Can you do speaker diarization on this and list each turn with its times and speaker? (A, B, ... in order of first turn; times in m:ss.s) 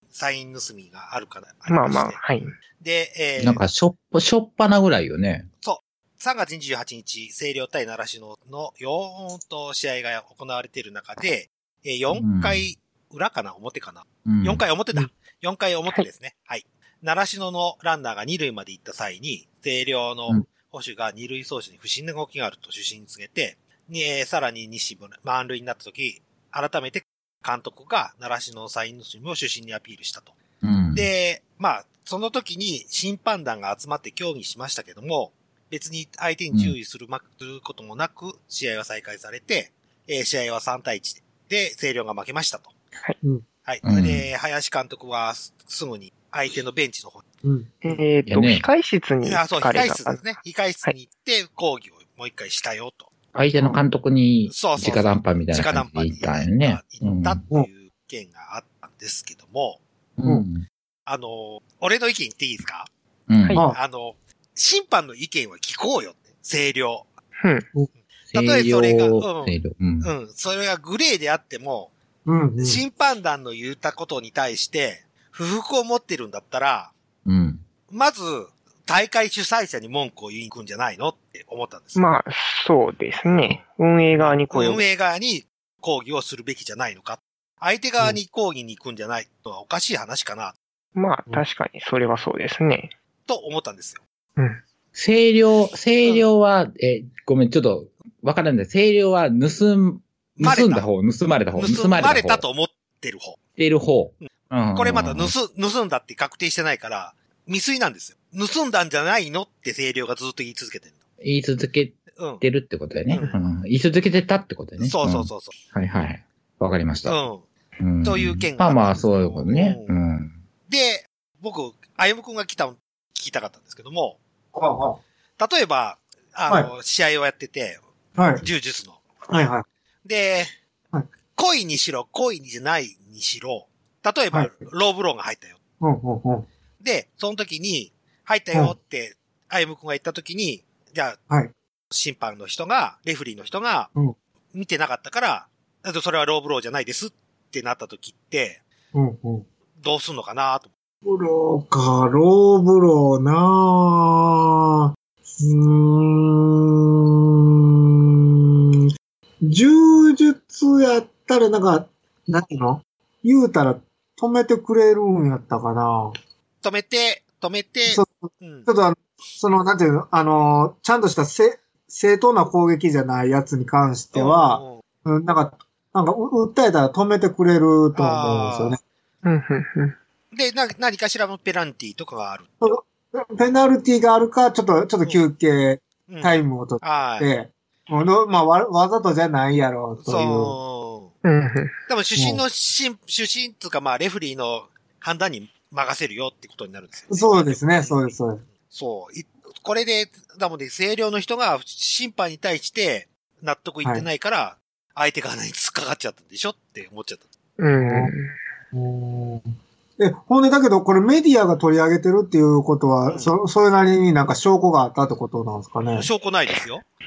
0:00.1-0:02.2 A
0:01.7-0:02.5 B
0:02.8-0:03.6 A
0:03.4-0:05.5 C
0:05.6-0:30.3 A
0:12.1-0:12.7 C
0:14.3-0:14.6 C
0:30.6-0:31.1 C
0:30.9-0:42.7 A
0:43.6-0:47.2 A
0:43.8-0:44.3 C
0:47.4-0:47.8 D
0:47.8-0:50.9 B
0:48.3-0:48.7 C
0:49.2-0:53.1 A
0:53.3-0:57.4 C
0:54.5-0:59.8 A
1:00.2-1:00.7 C
1:01.1-1:02.9 A
1:03.3-1:03.6 C
1:03.7-1:07.1 A
1:07.4-1:07.7 B
1:08.3-1:10.1 C
1:08.3-1:11.9 A
1:12.3-1:12.8 D
1:12.6-1:16.9 A
1:17.2-1:17.6 C
1:17.9-1:22.0 A
1:22.0-1:24.8 B
1:24.2-1:30.6 A
1:31.0-1:32.9 B
1:33.3-1:34.0 A
1:34.9-1:42.4 C
1:40.4-1:40.9 A
1:41.5-1:43.4 A
1:43.6-1:45.4 C
1:44.7-1:50.9 A
1:51.2-1:57.2 C
1:52.2-1:52.4 A
1:53.1-1:53.4 A
1:54.8-1:55.5 A
1:57.1-1:57.4 A
1:57.8-2:00.4 C
1:58.0-2:00.0 A
2:00.7-2:04.2 A
2:04.5-2:05.0 D
2:05.4-2:07.8 A
2:08.2-2:08.4 D
2:08.4-2:09.0 A
2:09.3-2:09.7 D
2:10.0-2:10.5 A
2:11.4-2:15.6 A
2:14.3-2:14.7 D
2:15.8-2:16.5 D
2:16.8-2:21.2 A
2:21.9-2:23.9 A
2:24.5-2:28.6 A
2:28.9-2:29.4 D
2:29.8-2:30.7 A
2:31.0-2:36.9 D
2:39.4-2:46.1 D
2:46.6-2:48.7 A
2:47.9-2:58.8 D
2:54.1-2:54.8 A
2:58.0-2:58.8 A
2:59.2-3:00.0 B
3:00.3-3:02.5 A
3:02.6-3:10.6 D
3:06.1-3:07.3 A
3:10.0-3:11.1 A
3:11.2-3:11.8 B
3:11.9-3:18.1 A
3:12.2-3:12.4 D
3:17.1-3:18.4 D
3:18.7-3:27.3 A
3:27.6-3:28.3 B
3:27.8-3:28.1 D
3:28.7-3:36.1 D
3:33.1-3:33.3 A
3:35.9-3:36.8 A